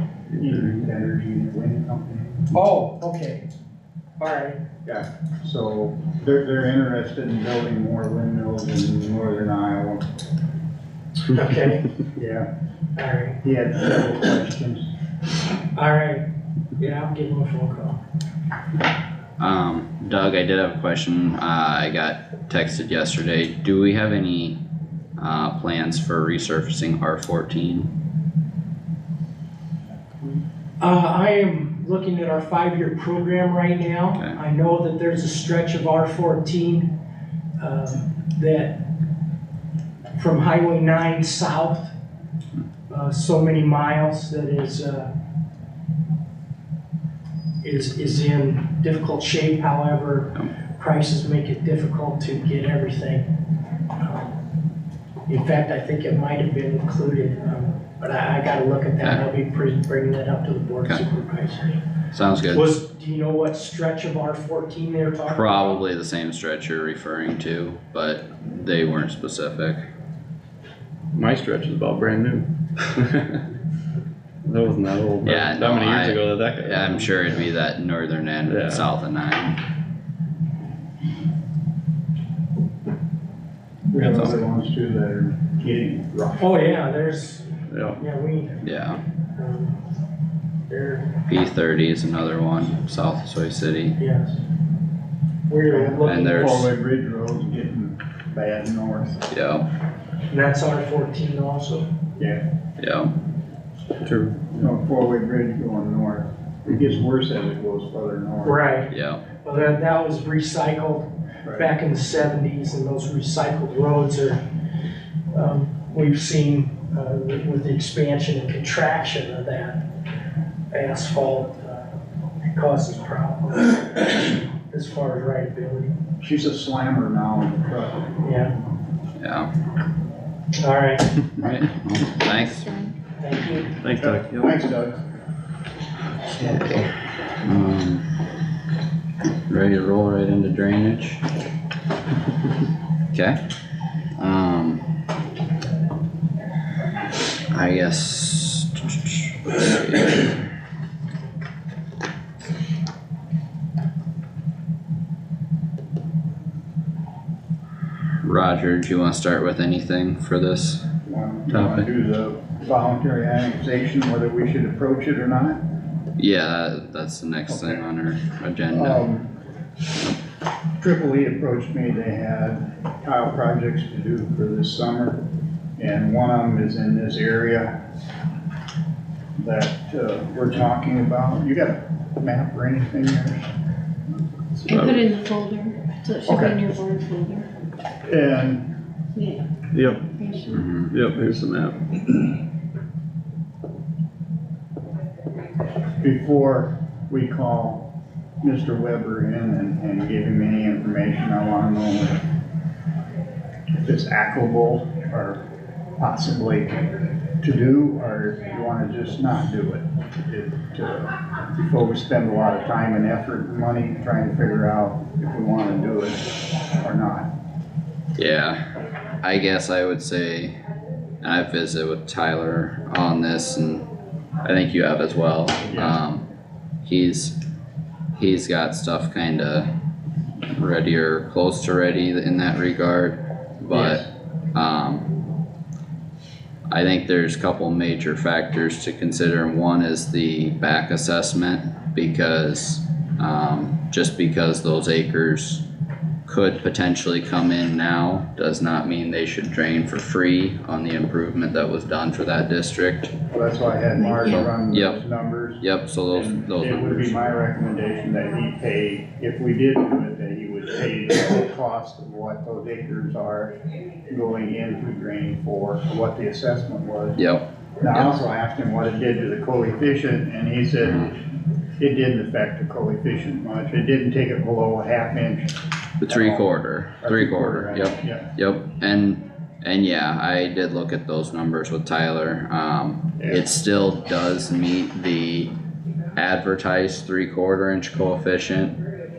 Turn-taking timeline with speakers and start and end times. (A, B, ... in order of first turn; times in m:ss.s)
0:00.3-0:02.5 A
0:02.5-0:03.5 B
0:04.2-0:04.6 B
0:04.8-0:10.0 A
0:11.3-0:11.9 B
0:12.2-0:12.5 A
0:13.0-0:13.4 B
0:13.4-0:14.9 A
0:15.7-0:16.2 B
0:16.8-0:18.0 B
0:19.4-0:24.6 C
0:25.2-0:27.9 C
0:30.8-0:36.9 B
0:37.6-0:38.8 B
0:40.1-0:41.9 B
0:42.9-0:45.1 B
0:47.6-0:53.3 B
0:54.0-0:54.3 B
0:55.3-1:01.8 B
1:02.1-1:02.7 C
1:02.5-1:05.8 B
1:05.3-1:09.8 C
1:11.1-1:13.4 D
1:14.4-1:17.4 D
1:15.2-1:19.6 C
1:18.5-1:18.9 D
1:23.9-1:26.5 A
1:24.0-1:24.4 C
1:26.4-1:28.6 B
1:27.7-1:28.0 D
1:28.6-1:29.0 C
1:29.4-1:29.8 B
1:30.7-1:31.1 B
1:31.3-1:34.0 C
1:34.0-1:34.4 B
1:35.5-1:36.6 B
1:35.7-1:39.2 A
1:36.0-1:36.7 C
1:39.3-1:39.7 C
1:40.3-1:41.9 B
1:42.2-1:42.4 A
1:42.8-1:43.1 C
1:44.0-1:44.6 D
1:44.6-1:48.6 A
1:48.4-1:54.4 B
1:48.9-1:49.2 C
1:55.3-1:59.8 B
2:00.7-2:01.9 B
2:02.5-2:05.9 B
2:06.2-2:08.1 A
2:08.2-2:08.5 B
2:09.2-2:09.5 C
2:10.6-2:11.1 B
2:11.4-2:12.7 C
2:12.3-2:12.9 E
2:13.2-2:13.7 B
2:13.8-2:14.6 D
2:14.0-2:15.0 A
2:16.3-2:18.2 C
2:19.5-2:21.2 C
2:23.1-2:23.4 C
2:24.2-2:24.8 C
2:27.5-2:30.4 C
2:38.2-2:40.8 C
2:41.0-2:45.6 A
2:41.5-2:41.8 C
2:46.2-2:49.0 C
2:47.5-2:47.8 A
2:48.7-2:49.3 A
2:50.8-2:55.2 A
2:55.8-2:57.8 A
2:59.4-3:03.4 A
3:04.6-3:05.1 D
3:04.6-3:07.5 E
3:06.2-3:06.6 A
3:08.0-3:08.7 A
3:09.2-3:09.4 E
3:09.7-3:10.1 D
3:10.1-3:10.6 E
3:10.5-3:10.9 C
3:10.9-3:12.2 D
3:16.0-3:17.9 A
3:18.4-3:22.2 A
3:23.8-3:25.4 A
3:26.0-3:37.3 A
3:38.2-3:38.6 C
3:39.2-3:40.6 C
3:41.2-3:43.9 C
3:44.4-3:46.2 C
3:45.6-3:46.0 A
3:46.8-3:47.3 C
3:48.1-3:49.7 C
3:50.5-3:55.1 C
3:53.7-3:54.1 A
3:56.7-4:05.6 C
4:06.3-4:13.1 C
4:13.3-4:23.5 A
4:14.2-4:15.0 C
4:15.6-4:17.2 C
4:24.1-4:27.2 A
4:27.2-4:28.1 C
4:27.8-4:31.2 A
4:30.8-4:31.1 C
4:31.8-4:38.3 A
4:36.0-4:45.5 C
4:43.2-4:43.4 A
4:46.2-4:48.8 C